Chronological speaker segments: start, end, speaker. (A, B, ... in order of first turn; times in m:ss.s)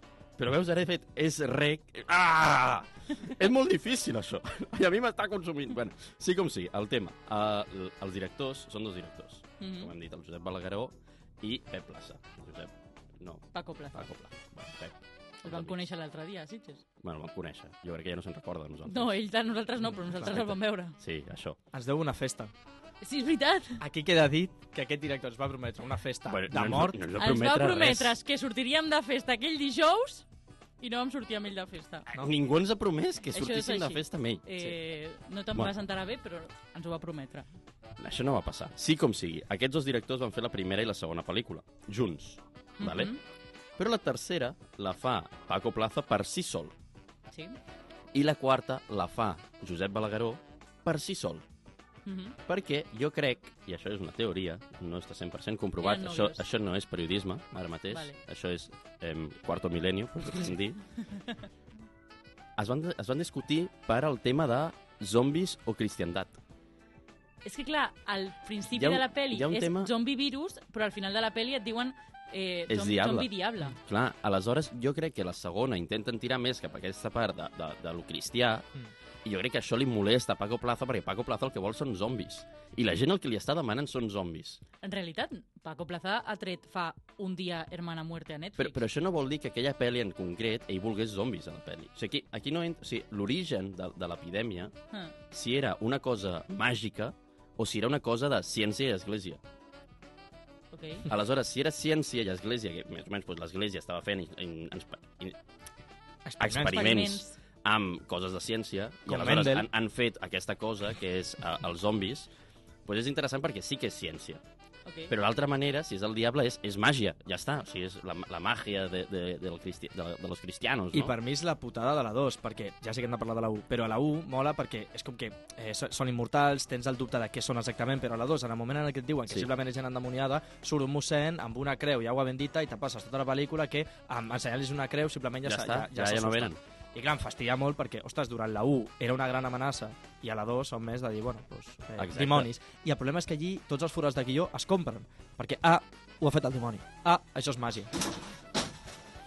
0:00.4-0:15.8 A
0:09.6-0:09.9 B
0:13.5-0:14.1 B
0:15.4-0:16.8 B
0:17.0-0:19.1 A
0:18.9-0:21.0 B
0:20.3-0:21.6 A
0:21.7-0:22.5 C
0:23.0-0:23.8 B
0:23.8-0:27.0 C
0:26.3-0:28.2 A
0:27.2-0:30.3 B
0:30.8-0:32.1 B
0:32.1-0:34.4 A
0:33.3-0:37.5 B
0:38.0-0:43.1 A
0:42.8-0:43.2 B
0:43.8-0:46.7 A
0:47.3-0:47.6 B
0:48.1-0:51.4 A
0:52.1-0:52.4 B
0:52.4-1:00.8 A
0:55.8-0:56.4 B
0:57.9-0:58.2 B
1:02.6-1:06.4 A
1:07.4-1:13.8 B
1:08.8-1:09.9 A
1:12.7-1:13.3 A
1:13.8-1:18.7 A
1:19.2-1:24.6 A
1:24.8-1:28.8 B
1:28.6-1:34.7 A
1:35.3-1:39.4 A
1:40.7-1:41.1 B
1:41.1-1:45.4 A
1:46.3-1:47.0 C
1:46.4-1:52.3 A
1:46.6-1:47.4 B
1:49.1-1:49.7 C
1:52.9-1:54.4 A
1:54.9-1:55.1 B
1:55.1-2:01.1 A
2:00.9-2:28.0 C
2:15.4-2:16.6 A
2:22.0-2:22.5 A